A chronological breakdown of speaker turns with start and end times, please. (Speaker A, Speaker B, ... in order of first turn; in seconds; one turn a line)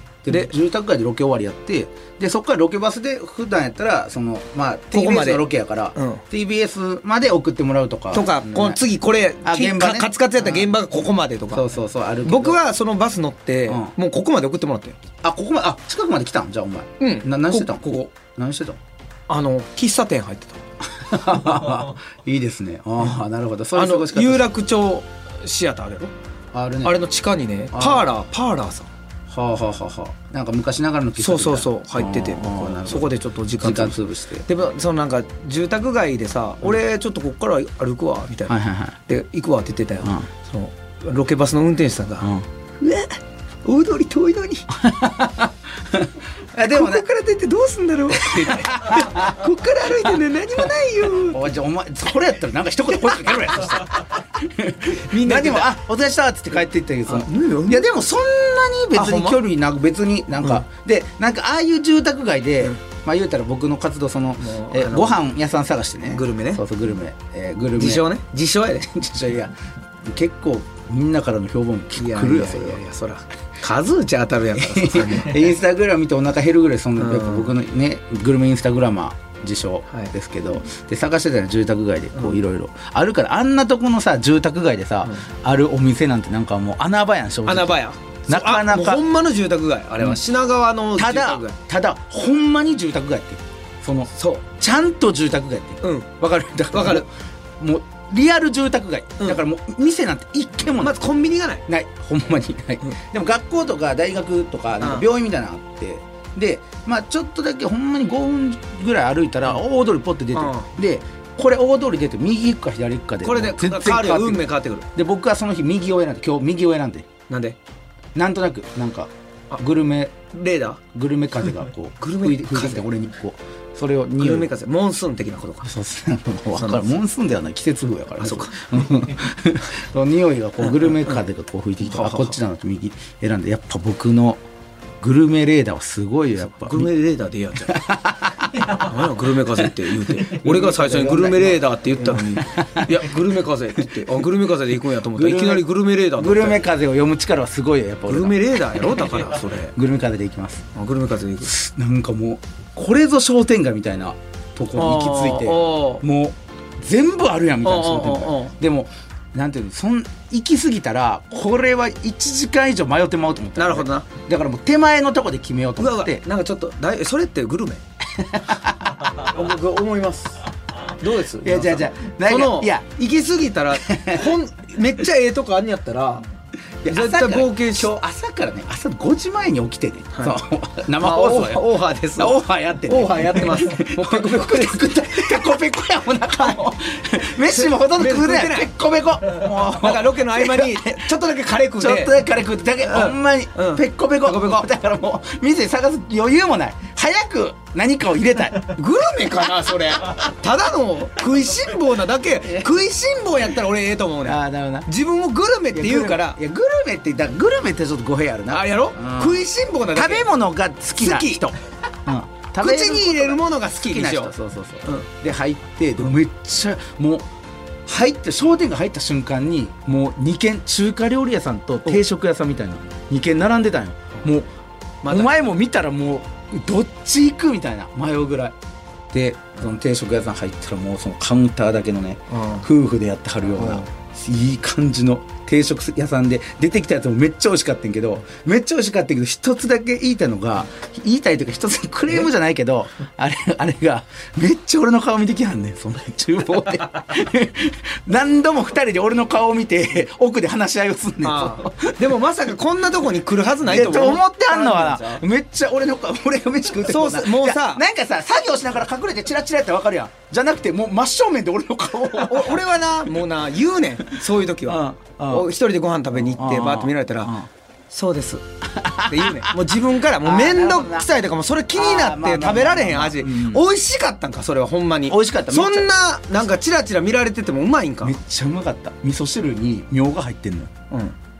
Speaker A: 0.2-8.8
Speaker B: 4.9-6.2
Speaker B: 8.1-11.7
Speaker A: 9.4-10.7
Speaker A: 11.5-12.6
Speaker B: 12.2-14.9
Speaker A: 15.2-18.8
Speaker B: 17.0-18.1
Speaker B: 19.3-20.6
Speaker A: 20.9-24.5
Speaker B: 23.7-26.1
Speaker A: 26.5-27.0
Speaker B: 26.8-28.9
Speaker A: 27.7-28.0
Speaker A: 29.3-34.5
Speaker B: 31.2-38.5
Speaker A: 38.5-39.0
Speaker B: 39.0-44.8
Speaker A: 44.8-47.0
Speaker B: 46.6-51.5
Speaker A: 48.2-49.3
Speaker A: 51.2-68.1
Speaker B: 55.2-55.7
Speaker B: 57.0-57.9
Speaker B: 58.9-59.4
Speaker B: 64.4-65.2
Speaker B: 66.1-66.6
Speaker B: 67.7-68.9
Speaker A: 68.8-72.8
Speaker B: 72.0-75.5
Speaker A: 74.5-89.0
Speaker B: 77.0-77.5
Speaker B: 87.5-91.6
Speaker A: 91.0-101.1
Speaker B: 94.1-94.4
Speaker B: 95.8-96.1
Speaker B: 96.7-97.0
Speaker B: 100.8-101.7
Speaker A: 101.7-117.1
Speaker B: 104.8-105.0
Speaker B: 110.3-110.7
Speaker B: 113.2-114.8
Speaker B: 117.3-117.6
Speaker A: 118.1-120.1
Speaker B: 120.3-120.8
Speaker A: 120.9-124.5
Speaker B: 122.0-122.8
Speaker B: 124.2-125.7
Speaker A: 125.6-134.4
Speaker B: 126.6-126.9
Speaker B: 128.2-128.6
Speaker B: 131.8-132.4
Speaker A: 135.0-136.9
Speaker B: 136.4-137.9
Speaker A: 137.7-138.8
Speaker B: 138.6-146.6
Speaker A: 140.0-143.0
Speaker A: 145.2-150.7
Speaker B: 148.1-149.7
Speaker B: 150.7-151.5
Speaker A: 151.4-166.2
Speaker B: 154.7-156.0
Speaker B: 157.6-158.5
Speaker B: 163.6-164.0
Speaker B: 165.8-167.8
Speaker A: 168.1-169.3
Speaker B: 169.0-170.4
Speaker B: 171.0-176.2
Speaker A: 171.4-172.9
Speaker A: 173.8-174.3
Speaker A: 176.8-191.1
Speaker B: 176.9-178.0
Speaker B: 180.1-180.4
Speaker B: 181.0-184.9
Speaker B: 187.5-188.7
Speaker B: 189.4-192.2
Speaker A: 191.7-198.8
Speaker B: 192.8-194.6
Speaker B: 198.6-206.4
Speaker A: 204.2-204.9
Speaker A: 205.7-217.2
Speaker B: 208.5-210.3
Speaker B: 211.0-211.4
Speaker B: 212.6-214.3
Speaker A: 217.8-224.5
Speaker B: 225.0-225.3
Speaker A: 225.1-228.6
Speaker A: 229.1-252.0
Speaker B: 232.3-232.7
Speaker B: 233.6-233.9
Speaker B: 251.2-255.2
Speaker A: 253.6-262.6
Speaker B: 256.8-257.8
Speaker B: 262.1-267.3
Speaker A: 264.6-265.5
Speaker A: 266.3-267.5
Speaker B: 267.9-268.4
Speaker A: 268.7-269.5
Speaker B: 269.1-278.2
Speaker A: 270.2-271.1
Speaker A: 271.7-273.6
Speaker A: 275.1-276.4
Speaker A: 278.0-280.7